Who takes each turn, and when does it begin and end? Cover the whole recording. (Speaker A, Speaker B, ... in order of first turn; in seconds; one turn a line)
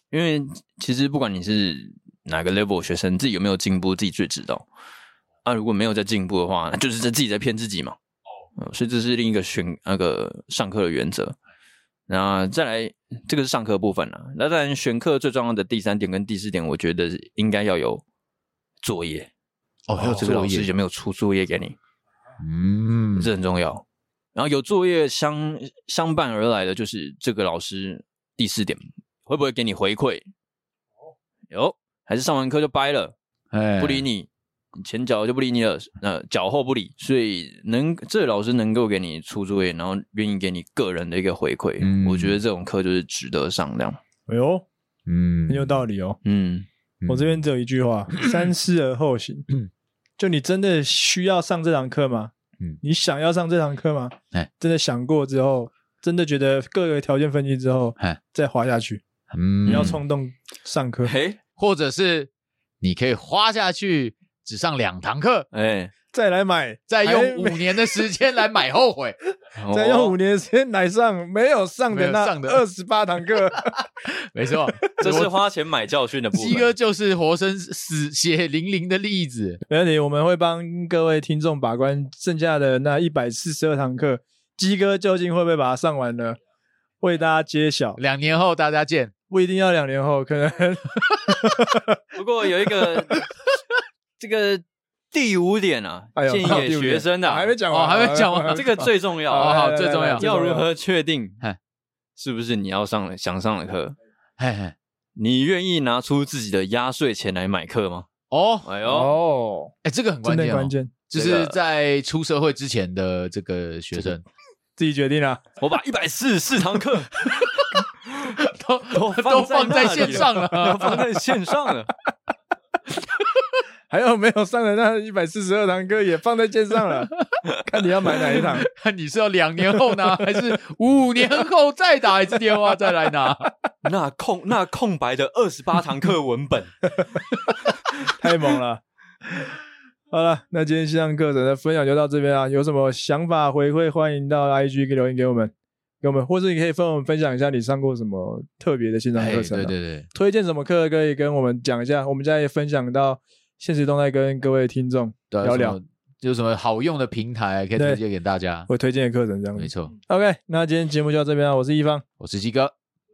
Speaker A: 0.1-4.6
Speaker A: 5.4-8.0
Speaker A: 8.6-11.3
Speaker A: 12.1-18.0
Speaker A: 18.8-19.3
Speaker B: 19.9-20.7
Speaker A: 20.0-21.8
Speaker B: 22.4-23.3
Speaker A: 23.1-23.8
Speaker A: 24.3-30.2
Speaker A: 31.5-33.1
Speaker B: 33.5-34.0
Speaker A: 33.8-44.0
Speaker B: 41.8-42.4
Speaker C: 44.3-44.7
Speaker B: 45.1-45.8
Speaker C: 45.5-46.2
Speaker A: 46.2-46.7
Speaker B: 47.0-47.4
Speaker C: 47.1-49.5
Speaker C: 50.2-59.0
Speaker B: 59.3-60.0
Speaker A: 59.6-60.0
Speaker C: 59.7-61.1
Speaker A: 61.0-61.4
Speaker B: 61.6-62.3
Speaker B: 62.8-65.5
Speaker A: 65.5-65.9
Speaker C: 66.1-68.1
Speaker B: 66.9-69.2
Speaker A: 69.6-70.2
Speaker C: 69.7-73.8
Speaker B: 71.9-72.6
Speaker B: 73.7-75.3
Speaker A: 75.0-76.7
Speaker B: 76.3-79.6
Speaker C: 79.7-86.4
Speaker C: 87.0-88.0
Speaker B: 88.0-89.1
Speaker C: 89.3-92.0
Speaker B: 91.1-91.5
Speaker A: 92.1-93.2
Speaker A: 94.2-97.6
Speaker C: 96.2-100.7
Speaker B: 97.7-100.3
Speaker A: 98.4-99.6
Speaker A: 100.2-101.4
Speaker A: 102.2-103.9
Speaker B: 104.4-104.7
Speaker A: 105.2-108.1
Speaker B: 108.3-108.7
Speaker A: 108.6-109.1
Speaker C: 108.8-110.9
Speaker B: 109.8-114.2
Speaker A: 111.1-111.6
Speaker C: 114.8-115.4
Speaker A: 115.6-118.4
Speaker B: 118.3-121.2
Speaker A: 118.9-121.9
Speaker C: 123.9-127.1
Speaker C: 127.7-128.7
Speaker A: 128.1-128.6
Speaker B: 128.3-133.5
Speaker A: 133.8-136.9
Speaker C: 138.0-139.5
Speaker C: 140.1-155.8
Speaker B: 149.2-150.1
Speaker B: 155.3-158.7
Speaker C: 157.8-158.0
Speaker C: 158.7-162.0
Speaker B: 159.6-159.9
Speaker B: 162.2-162.7